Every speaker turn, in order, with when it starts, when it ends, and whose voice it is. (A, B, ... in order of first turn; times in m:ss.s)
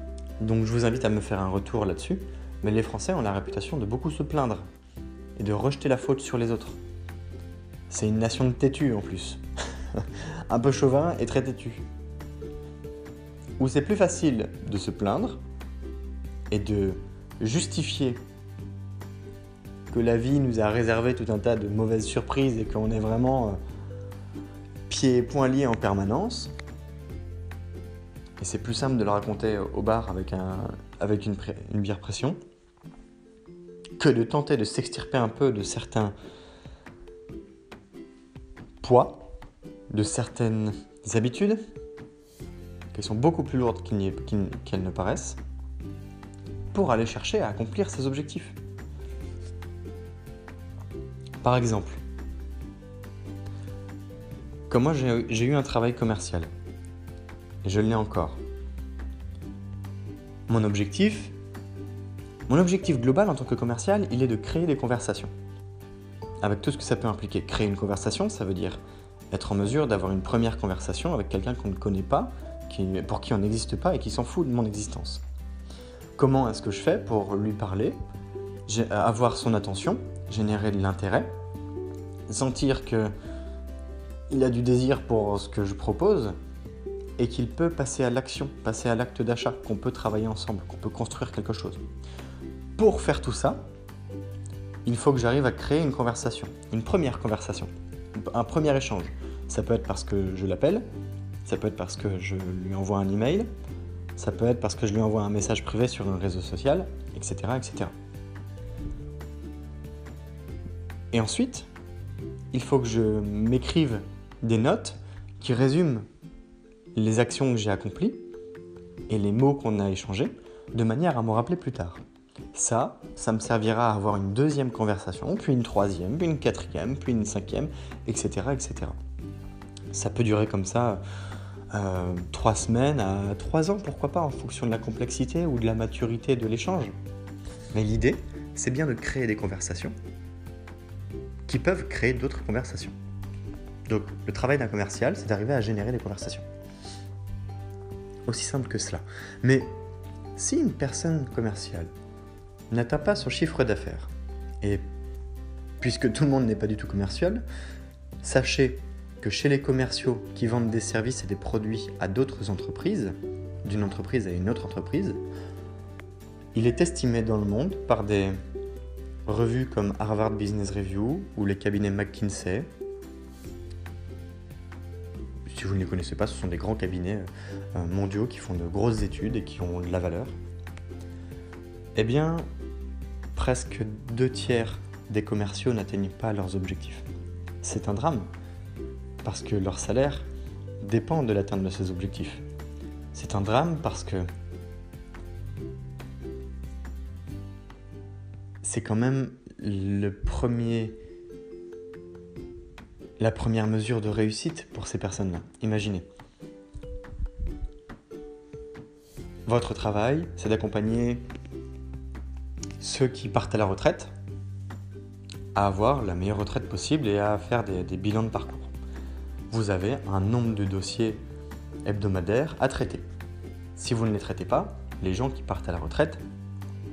0:00.4-0:04.7 A
0:05.4-0:06.8 A
0:07.9-0:09.4 A
0:09.9-0:11.8 A
0:13.6-0:15.4 A
0:16.5-0:18.2 A
0:19.9-0:23.6 A
0:24.9-0:26.5 A
0:28.4-0:32.4 A
0:34.0-0:36.2 A
0:38.8-0:39.3 A
0:39.9-0:41.6 A
0:42.9-0:45.4 A
0:46.7-0:48.6 A
0:51.4-0:52.0 A
0:54.7-0:56.5 A
0:57.6-0:58.4 A
1:00.5-1:01.3 A
1:02.5-1:05.3 A
1:06.4-1:15.2 A
1:16.2-1:18.0 A
1:18.7-1:21.3 A
1:22.3-1:23.1 A
1:24.3-1:26.4 A
1:27.2-1:31.8 A
1:32.8-1:33.6 A
1:34.8-1:40.9 A
1:41.5-1:43.5 A
1:44.2-1:47.9 A
1:51.1-1:51.7 A
1:52.5-1:56.1 A
1:57.0-1:58.2 A
1:59.1-2:02.0 A
2:02.5-2:09.0 A
2:09.9-2:11.0 A
2:11.7-2:17.0 A
2:17.7-2:20.0 A
2:21.5-2:23.0 A
2:23.9-2:26.5 A
2:28.3-2:29.7 A
2:30.4-2:31.9 A
2:32.7-2:34.1 A
2:35.8-2:37.4 A
2:38.2-2:45.2 A
2:46.6-2:48.4 A
2:49.3-2:52.7 A
2:55.5-3:00.4 A
3:02.0-3:02.5 A
3:03.4-3:07.0 A
3:07.6-3:08.3 A
3:09.2-3:10.3 A
3:10.8-3:12.4 A
3:13.1-3:14.3 A
3:18.6-3:21.0 A
3:23.2-3:26.1 A
3:29.5-3:31.2 A
3:32.8-3:34.1 A
3:35.6-3:38.7 A
3:39.5-3:41.2 A
3:41.9-3:43.0 A
3:43.8-3:46.2 A